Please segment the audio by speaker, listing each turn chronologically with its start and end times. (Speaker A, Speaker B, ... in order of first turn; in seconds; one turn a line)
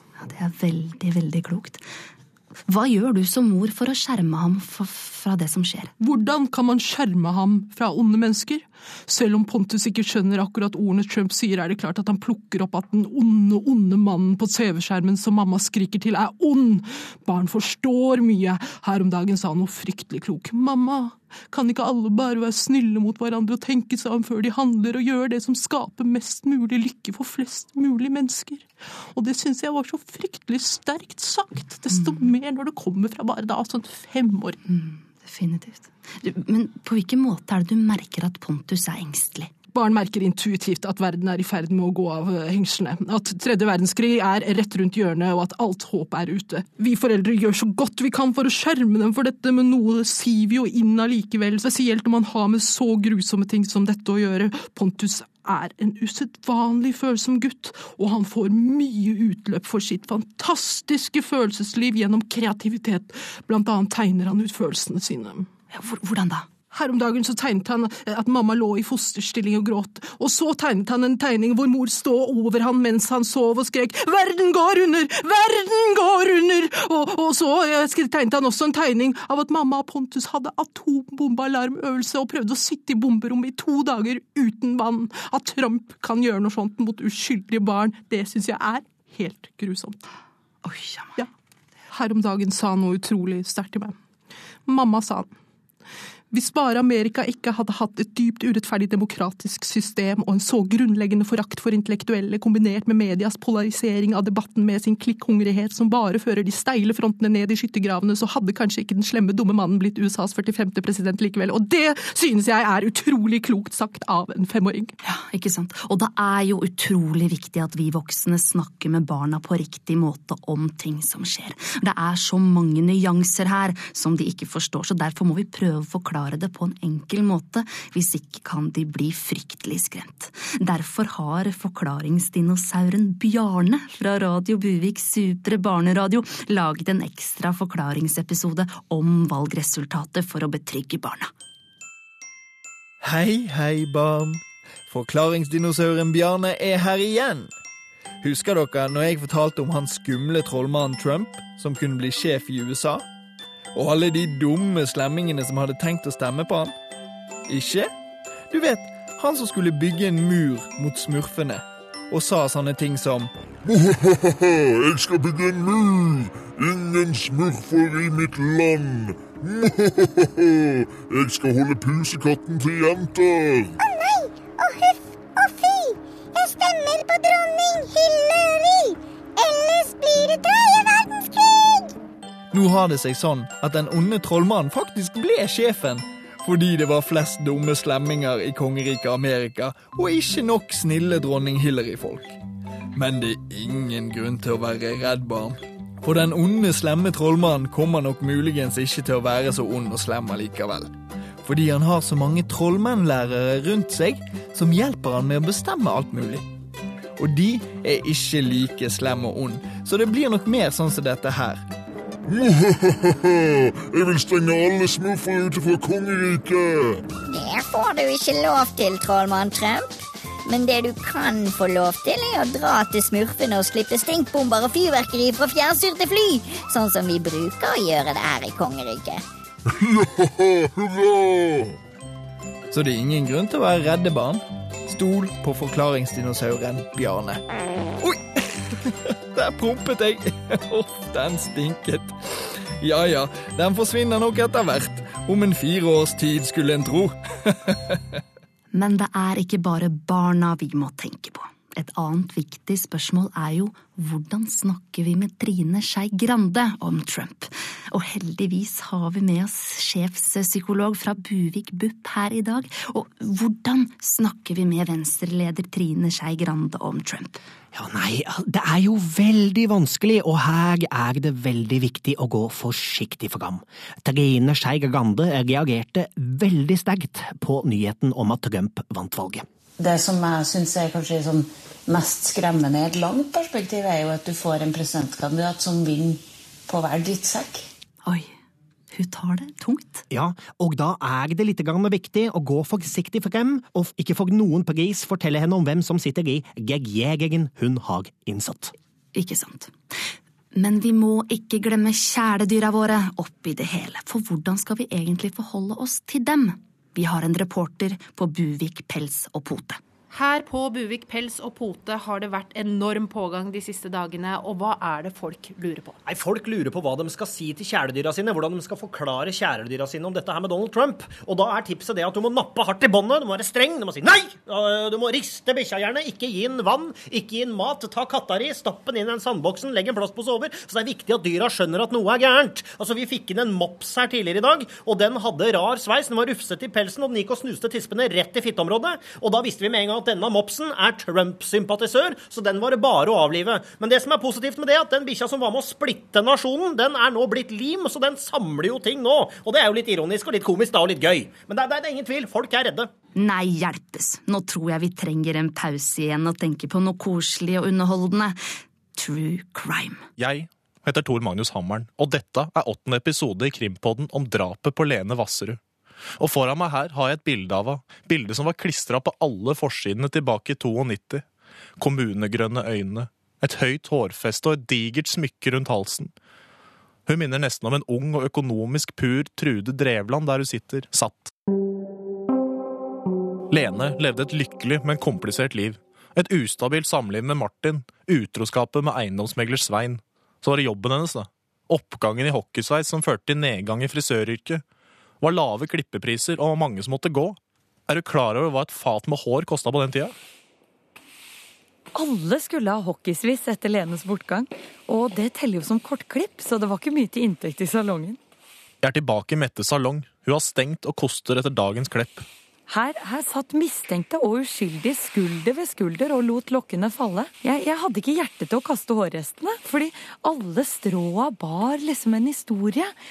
Speaker A: 0.2-1.9
Speaker A: 2.7-5.9
Speaker B: 6.0-34.6
Speaker A: 31.9-32.3
Speaker A: 34.6-39.5
Speaker B: 39.7-65.5
Speaker A: 65.7-66.5
Speaker B: 66.7-90.0
Speaker A: 90.6-91.1
Speaker B: 91.9-94.0
Speaker B: 94.7-95.3
Speaker B: 96.3-115.0
Speaker A: 115.0-141.3
Speaker C: 143.0-147.5
Speaker C: 148.2-153.0
Speaker C: 153.7-156.7
Speaker C: 157.5-157.9
Speaker C: 158.5-163.3
Speaker D: 163.7-173.7
Speaker E: 173.8-181.9
Speaker C: 182.5-192.4
Speaker C: 192.9-200.9
Speaker C: 201.4-206.4
Speaker C: 207.2-211.7
Speaker D: 212.3-217.0
Speaker E: 217.3-219.9
Speaker E: 220.5-229.2
Speaker D: 229.7-231.8
Speaker C: 232.7-237.4
Speaker C: 238.0-242.1
Speaker C: 242.8-248.0
Speaker A: 248.7-267.4
Speaker F: 267.7-279.5
Speaker G: 279.8-286.2
Speaker G: 286.7-287.6
Speaker A: 288.0-288.3
Speaker A: 288.9-290.0
Speaker F: 290.1-298.7
Speaker A: 299.1-300.0
Speaker A: 300.6-309.8
Speaker B: 310.1-315.9
Speaker F: 316.1-352.9
Speaker A: 353.1-358.4
Speaker A: 358.9-360.1
Speaker H: 360.2-365.6
Speaker H: 366.2-371.2
Speaker H: 371.8-376.1
Speaker H: 377.1-381.3
Speaker H: 383.5-394.6
Speaker H: 395.2-400.1
Speaker I: 401.9-408.2
Speaker H: 408.8-412.3
Speaker I: 412.7-422.9